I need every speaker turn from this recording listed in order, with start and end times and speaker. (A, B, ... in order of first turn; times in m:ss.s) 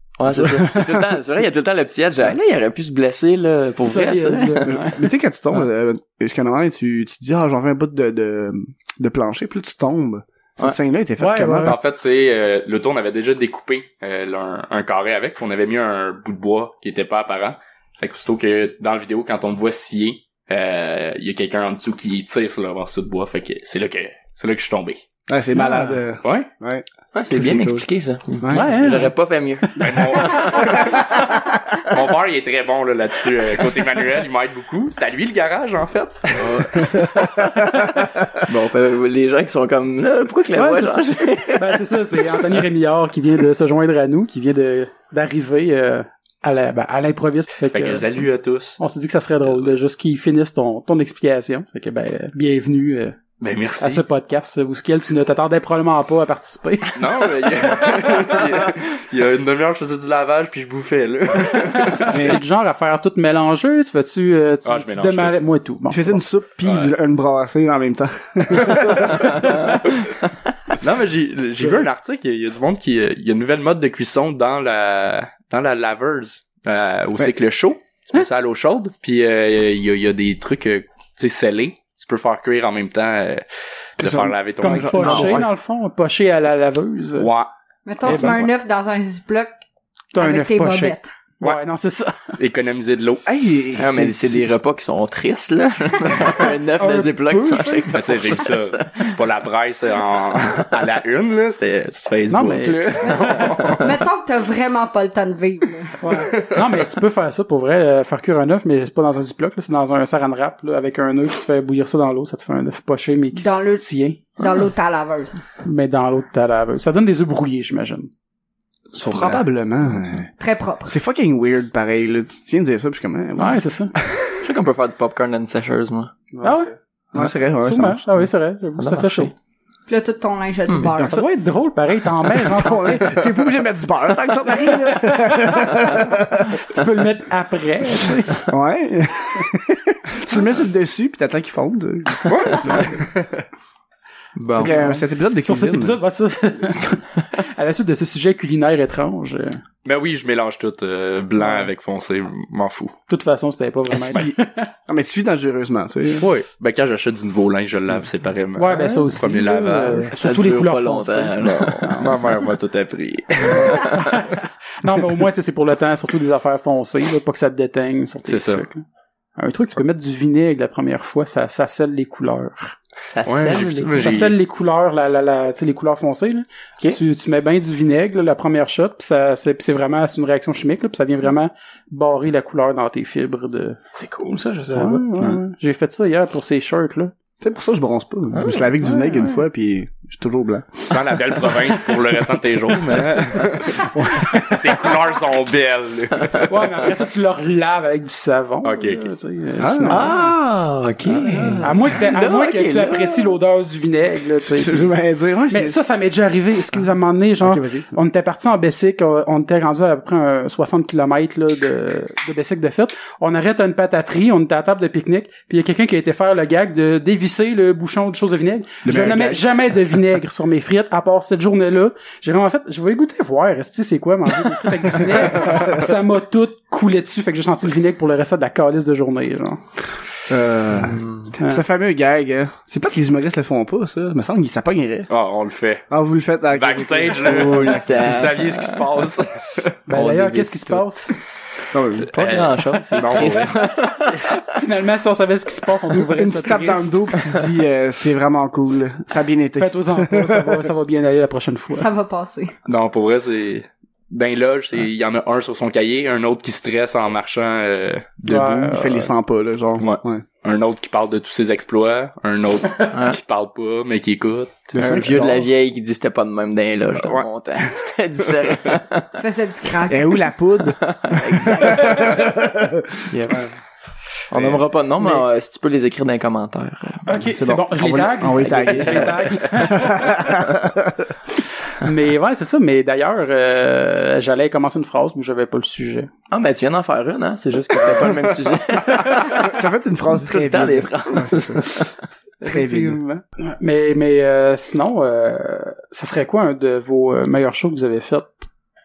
0:00.2-0:04.8 A
0:00.3-0:01.0 B
0:03.8-0:05.1 C
0:04.6-0:11.8 B
0:11.2-0:11.8 C
0:11.6-0:25.0 D
0:25.3-0:27.8 B
0:25.6-0:26.0 C
0:26.2-0:26.5 D
0:27.1-0:30.6 A
0:28.4-0:28.7 B
0:28.5-0:29.1 C
0:29.7-0:30.7 C
0:29.8-0:31.2 D
0:30.6-0:30.9 B
0:31.8-0:36.9 D
0:36.4-0:42.4 A
0:40.5-0:48.2 C
0:47.7-0:48.8 D
0:48.8-0:53.2 C
0:49.4-0:49.8 D
0:53.4-0:54.0 D
0:53.8-0:58.4 C
0:56.9-1:02.4 D
1:01.7-1:06.2 C
1:02.1-1:02.4 B
1:04.6-1:05.4 D
1:05.9-1:09.5 B
1:06.6-1:06.9 D
1:10.8-1:23.4 D
1:24.0-1:25.4 D
1:24.0-1:25.5 B
1:24.6-1:27.3 C
1:25.0-1:25.4 A
1:27.2-1:27.5 D
1:27.8-1:29.6 E
1:28.0-1:28.5 C
1:28.0-1:28.4 D
1:30.1-1:32.2 C
1:30.2-1:31.1 E
1:32.4-1:33.2 D
1:33.2-1:34.6 B
1:33.8-1:39.1 A
1:36.8-1:37.9 C
1:37.9-1:44.0 D
1:42.3-1:43.6 C
1:43.0-1:46.1 E
1:46.0-1:54.2 C
1:53.3-1:53.8 E
1:54.4-1:55.4 E
1:55.6-1:58.1 C
1:58.9-2:00.3 B
1:59.1-1:59.4 D
2:00.4-2:00.9 E
2:00.8-2:03.6 B
2:03.4-2:03.9 C
2:04.4-2:06.1 A
2:06.3-2:08.0 B
2:06.4-2:06.7 C
2:07.3-2:09.3 C
2:08.8-2:09.3 A
2:09.9-2:11.2 E
2:11.0-2:11.2 B
2:11.0-2:13.3 C
2:12.4-2:16.6 B
2:14.6-2:18.5 C
2:18.5-2:23.0 B
2:22.3-2:23.3 D
2:24.4-2:24.9 A
2:24.6-2:26.0 B
2:24.6-2:29.6 C
2:29.8-2:32.9 D
2:31.4-2:31.7 C
2:33.1-2:34.7 C
2:33.9-2:34.3 D
2:34.0-2:36.3 B
2:36.1-2:40.1 D
2:38.6-2:42.2 C
2:40.1-2:42.0 A
2:41.6-2:44.1 D
2:43.6-2:48.8 C
2:48.3-2:48.7 D
2:49.4-2:52.8 C
2:53.1-2:54.1 A
2:53.2-2:54.4 D
2:54.0-3:03.8 C
3:04.0-3:05.0 A
3:04.7-3:07.1 C
3:07.4-3:11.1 B
3:08.4-3:08.6 A
3:08.4-3:09.4 C
3:10.8-3:16.9 D
3:12.8-3:15.0 C
3:16.4-3:20.3 C
3:18.6-3:19.0 D
3:19.6-3:20.2 B
3:19.9-3:23.4 A
3:21.1-3:21.7 B
3:21.6-3:24.9 C
3:24.4-3:25.8 B
3:25.5-3:49.6 C
3:27.4-3:27.9 B
3:38.8-3:39.5 B
3:45.1-3:45.8 B
3:50.3-3:55.1 B
3:50.7-3:51.3 A
3:55.1-3:55.8 D
3:55.9-3:58.3 B
3:56.5-3:59.8 D
3:57.4-3:58.8 A
3:59.9-4:01.1 C
3:59.9-4:01.1 A
4:01.7-4:02.1 B
4:02.0-4:04.5 A
4:02.1-4:03.5 D
4:03.0-4:03.5 B
4:04.5-4:07.2 C
4:06.0-4:10.7 B
4:09.6-4:11.9 C
4:11.7-4:12.5 E
4:12.6-4:18.5 D
4:18.2-4:19.1 C
4:18.3-4:20.2 B
4:19.8-4:25.0 D
4:22.9-4:23.2 A
4:24.7-4:25.4 B
4:24.8-4:29.2 A
4:27.0-4:27.2 D
4:29.2-4:30.2 E
4:29.9-4:33.5 B
4:30.8-4:32.3 A
4:33.1-4:33.4 A
4:34.3-4:37.1 A
4:34.3-4:34.6 D
4:37.1-4:40.5 C
4:37.2-4:41.1 B
4:38.3-4:39.3 A
4:41.7-4:46.1 C
4:46.3-4:52.0 A
4:48.0-4:48.3 B
4:48.9-4:51.9 B
4:52.4-4:53.2 B
4:52.5-4:58.4 C